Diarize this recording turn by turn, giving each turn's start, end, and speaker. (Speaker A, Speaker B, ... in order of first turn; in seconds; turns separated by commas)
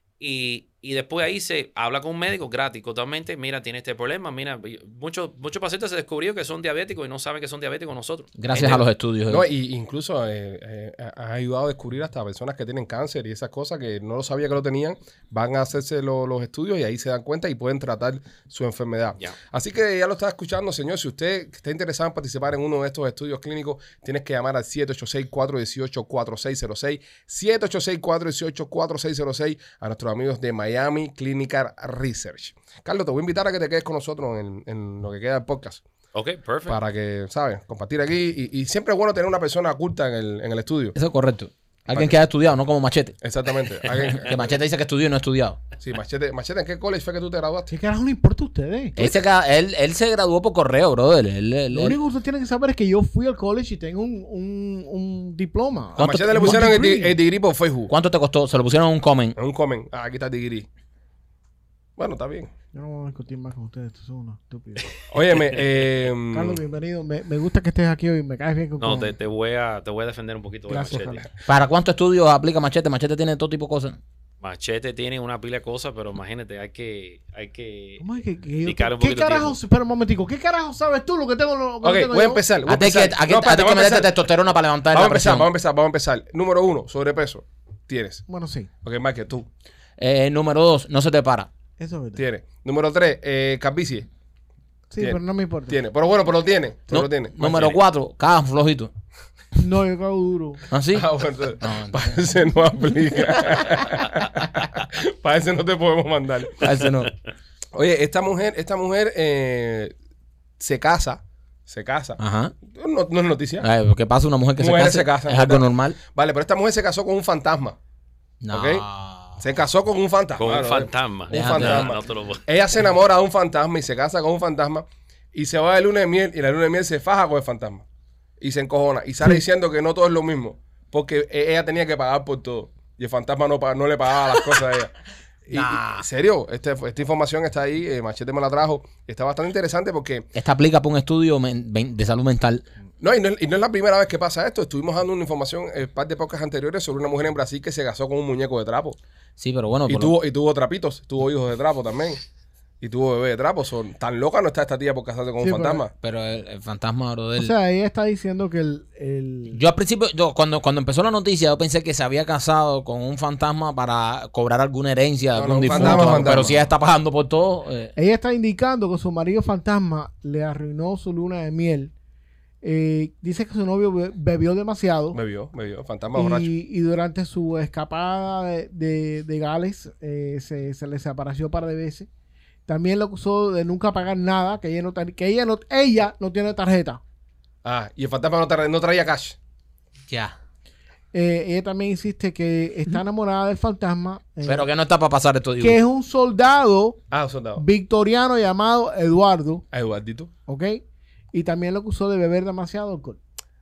Speaker A: 0.2-8.8, Speaker B: 8.4-9.4, Speaker C: 9.3-35.8, Speaker A: 36.1-36.8, Speaker C: 36.7-40.9, Speaker B: 40.9-43.2, Speaker C: 43.2-44.5, Speaker B: 44.1-45.6, Speaker C: 45.8-47.7, Speaker D: 47.7-49.0, Speaker B: 49.0-52.0, Speaker D: 51.7-57.1, Speaker B: 56.0-56.7, Speaker C: 56.0-57.9, Speaker B: 57.9-59.4, Speaker C: 59.4-60.7, Speaker C: 62.0-62.5, Speaker D: 62.7-64.9, Speaker C: 65.1-66.6, Speaker D: 66.3-69.1, Speaker A: 68.8-71.3, Speaker D: 70.7-71.2, Speaker B: 71.5-74.0, Speaker A: 74.4-78.0, Speaker D: 78.0-82.4, Speaker A: 78.6-79.6, Speaker C: 81.8-84.1, Speaker B: 82.7-85.5, Speaker C: 84.9-88.2, Speaker D: 88.3-88.7, Speaker C: 88.8-89.5, Speaker B: 90.0-91.5, Speaker D: 91.8-92.2, Speaker C: 92.2-94.1, Speaker D: 94.9-95.8, Speaker C: 95.0-97.8, Speaker B: 96.9-98.9, Speaker D: 99.5-100.6, Speaker B: 100.7-101.1, Speaker C: 100.9-106.8, Speaker B: 101.6-102.2, Speaker B: 106.6-107.1, Speaker C: 107.7-109.9, Speaker C: 110.6-113.7, Speaker B: 112.2-112.5, Speaker B: 113.6-116.0, Speaker C: 114.6-117.8, Speaker B: 118.4-119.4, Speaker C: 118.5-118.8, Speaker C: 119.4-127.8, Speaker A: 120.4-122.4, Speaker B: 121.3-121.9, Speaker C: 128.4-134.9, Speaker C: 135.5-140.3, Speaker B: 135.5-136.0, Speaker B: 140.3-142.6, Speaker C: 143.0-149.0, Speaker B: 149.4-150.2, Speaker C: 149.9-152.2, Speaker C: 152.8-155.9, Speaker D: 155.4-155.8, Speaker B: 156.0-157.5, Speaker D: 157.4-159.6, Speaker B: 159.5-167.9, Speaker C: 165.3-166.6, Speaker D: 165.7-166.5, Speaker D: 167.9-171.9, Speaker D: 172.6-175.2, Speaker C: 175.1-176.5, Speaker D: 176.1-182.1, Speaker D: 182.7-187.0, Speaker C: 187.6-189.4, Speaker B: 190.1-190.3, Speaker D: 191.1-194.7, Speaker B: 194.4-195.8, Speaker D: 195.6-197.0, Speaker C: 197.1-197.6, Speaker D: 197.6-199.6, Speaker C: 199.7-200.3, Speaker D: 200.5-200.8, Speaker D: 201.3-203.2